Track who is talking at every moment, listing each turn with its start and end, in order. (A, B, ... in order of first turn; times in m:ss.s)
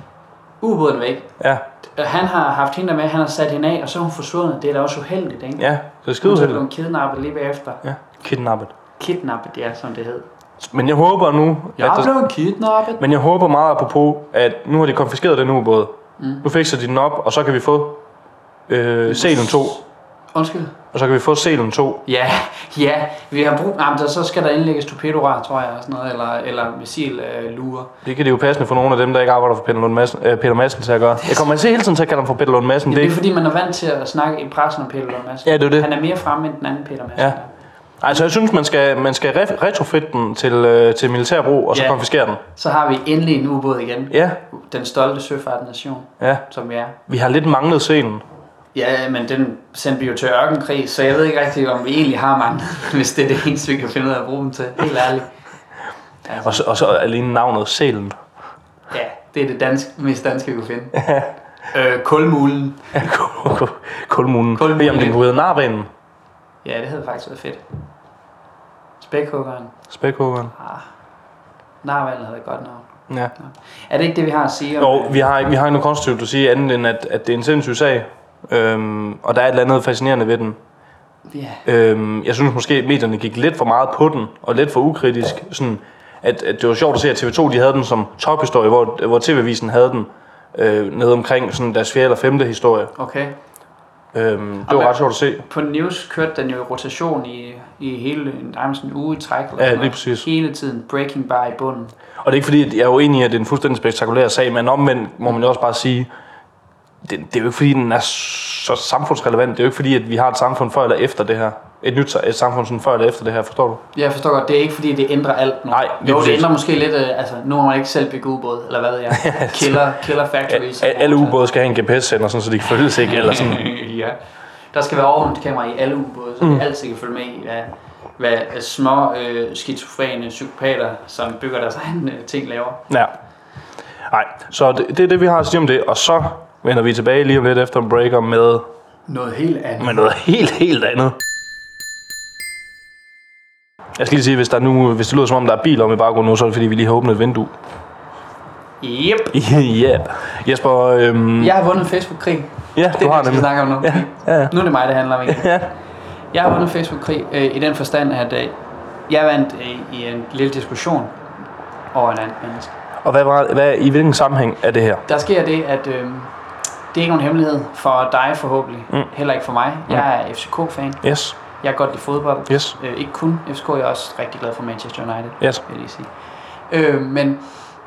0:00.6-0:01.3 A
0:01.4-0:01.6 B
0:01.8-0:05.7 A
0:05.6-0:06.6 B
0:06.2-0:07.8 A
0:07.8-0:08.7 B
0:09.0-0:10.3 A
0:10.6-0:12.1 B
0:11.8-0:13.0 A
0:13.0-0:18.0 B
0:16.2-0:16.4 A
0:18.7-0:19.8 B
0:19.1-0:19.8 A
0:20.3-0:20.8 A
0:20.9-0:22.0 B
0:22.0-0:27.9 A
0:28.0-0:33.2 B
0:32.9-0:37.5 A
0:35.4-0:35.9 B
0:38.0-0:42.4 B
0:41.7-0:47.0 A
0:44.1-0:44.4 B
0:47.1-0:48.2 B
0:48.7-0:55.3 A
0:56.2-0:56.6 A
0:56.4-0:58.2 B
0:58.9-1:00.9 A
1:00.9-1:01.3 B
1:01.7-1:03.0 A
1:02.9-1:05.9 B
1:04.5-1:05.2 A
1:06.6-1:07.6 A
1:09.0-1:09.7 A
1:09.9-1:10.5 B
1:10.5-1:10.9 A
1:11.8-1:15.2 A
1:14.8-1:20.6 B
1:21.3-1:21.6 A
1:21.6-1:32.9 B
1:33.0-1:33.4 A
1:34.1-1:35.4 B
1:34.6-1:41.9 A
1:39.6-1:40.3 B
1:42.2-1:46.1 B
1:47.0-1:53.8 B
1:53.9-2:01.4 A
1:55.7-1:56.5 B
1:59.2-1:59.8 B
2:00.5-2:03.6 B
2:02.8-2:04.2 A
2:04.7-2:12.8 A
2:14.1-2:18.6 B
2:19.1-2:20.0 A
2:19.8-2:21.2 B
2:24.0-2:27.5 B
2:28.8-2:29.4 A
2:29.3-2:31.5 B
2:31.4-2:35.7 A
2:32.7-2:34.5 B
2:35.3-2:35.7 B
2:36.3-2:41.2 A
2:41.9-2:42.8 A
2:43.0-2:45.0 B
2:45.1-2:46.3 A
2:46.9-2:56.1 A
2:51.0-2:51.4 B
2:52.5-2:52.8 B
2:56.7-2:57.4 A